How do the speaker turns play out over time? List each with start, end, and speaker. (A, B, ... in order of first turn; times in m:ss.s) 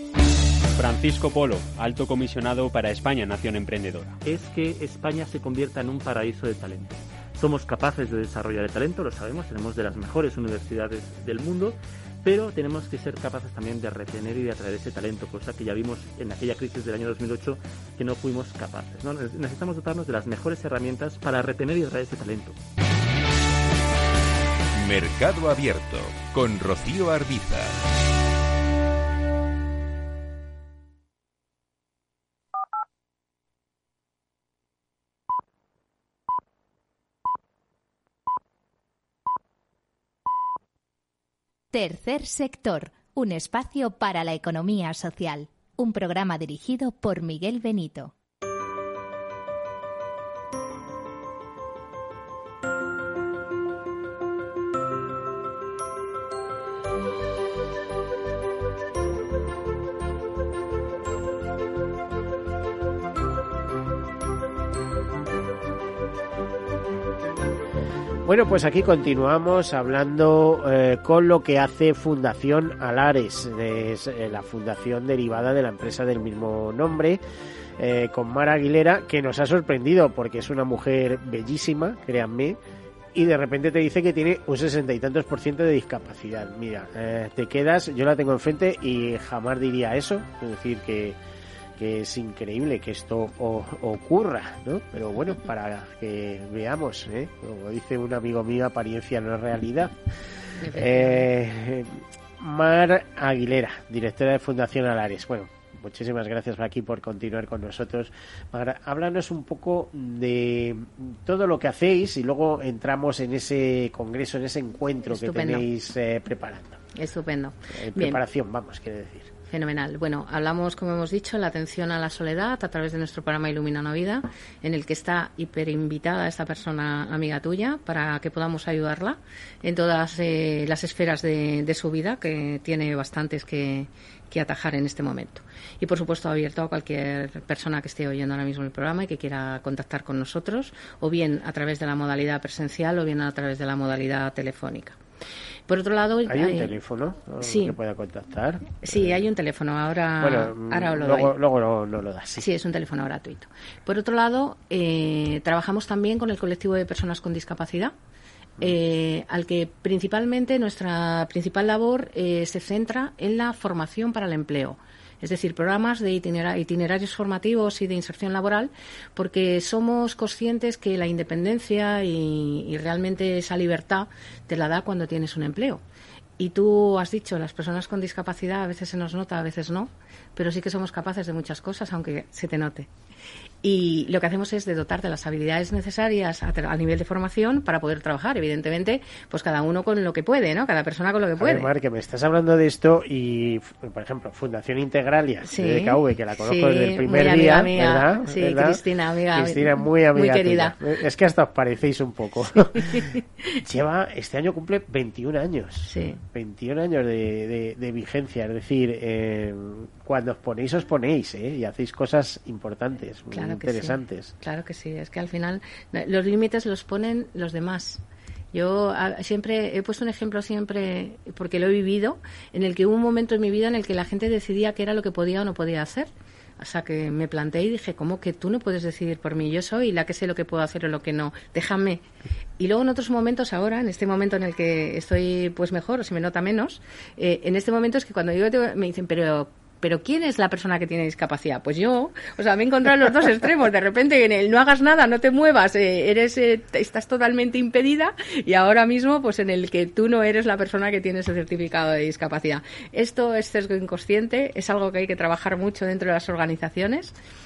0:00.7-0:04.2 A
0:04.2-0:22.6 B
0:24.8-0:27.8 C
0:41.7-0:48.1 D
1:08.2-1:17.2 E
1:17.8-1:22.6 E
1:23.1-1:31.2 E
1:31.8-1:40.0 E
1:40.6-1:41.3 F
1:40.7-1:56.8 E
1:55.1-1:55.7 F
1:56.9-1:58.2 F
1:57.7-1:59.3 E
1:59.5-2:25.0 F
2:25.7-2:26.8 F
2:26.2-2:29.2 E
2:27.4-2:27.8 F
2:28.8-2:31.3 F
2:30.2-2:32.4 E
2:32.4-2:37.9 F
2:38.6-2:55.8 F
2:56.4-3:02.9 F
3:03.6-3:11.7 F
3:11.4-3:18.8 E
3:15.4-3:20.8 F
3:19.3-3:34.3 E
3:22.7-3:23.5 F
3:25.8-3:26.2 F
3:33.3-3:38.0 F
3:38.5-3:52.0 F
3:52.6-4:17.1 F